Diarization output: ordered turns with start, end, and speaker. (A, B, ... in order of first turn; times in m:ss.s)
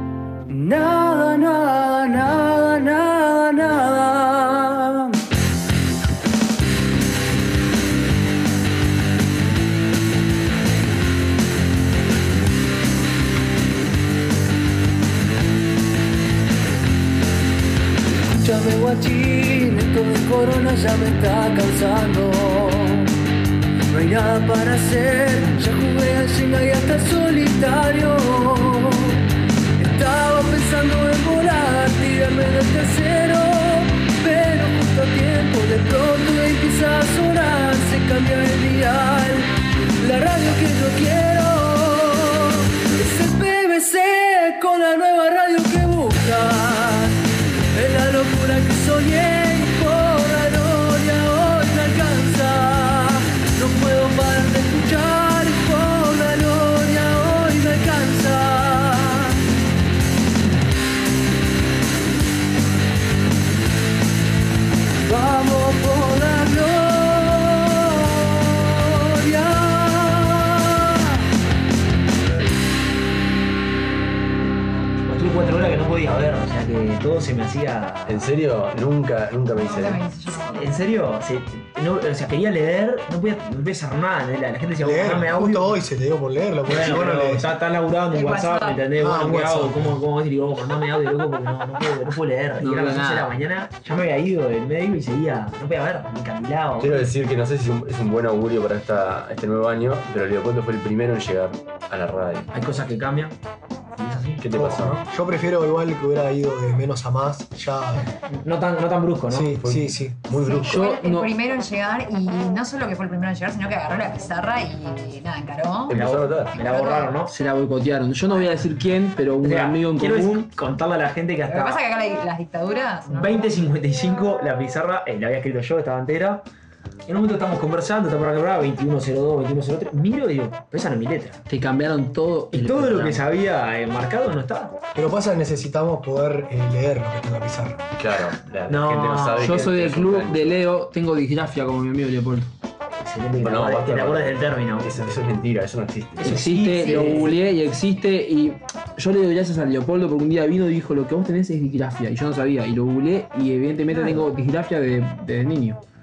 0:00.5-0:05.2 A
0:18.3-0:23.1 A
0:23.9-0:29.2 A
0:29.8-0:47.2 A
0:47.8-0:59.4 A
1:05.1-1:10.9 A
1:15.1-1:18.3 B
1:18.1-1:20.0 C
1:19.5-1:20.8 D
1:20.5-1:25.8 B
1:24.8-1:27.4 E
1:26.7-1:37.0 B
1:28.1-1:28.9 D
1:29.0-1:30.0 E
1:32.6-1:33.3 F
1:36.8-1:42.5 C
1:42.5-1:43.4 B
1:44.0-1:44.4 B
1:44.4-1:45.0 C
1:44.5-1:48.1 E
1:48.3-1:49.6 B
1:49.3-1:50.3 E
1:49.6-1:50.8 C
1:50.3-1:56.0 D
1:50.7-1:51.3 F
1:55.9-1:56.5 C
1:55.9-1:57.3 B
1:56.6-1:57.2 D
1:57.3-2:00.5 F
1:59.4-2:01.8 B
2:01.5-2:03.5 D
2:03.1-2:06.4 B
2:07.1-2:11.4 B
2:11.5-2:13.2 F
2:12.5-2:14.8 B
2:15.0-2:17.8 E
2:18.0-2:20.6 C
2:18.7-2:19.6 B
2:19.4-2:22.5 F
2:23.0-2:25.0 B
2:23.4-2:26.4 C
2:26.2-2:27.4 B
2:26.2-2:35.8 F
2:26.8-2:27.2 D
2:33.9-2:34.2 B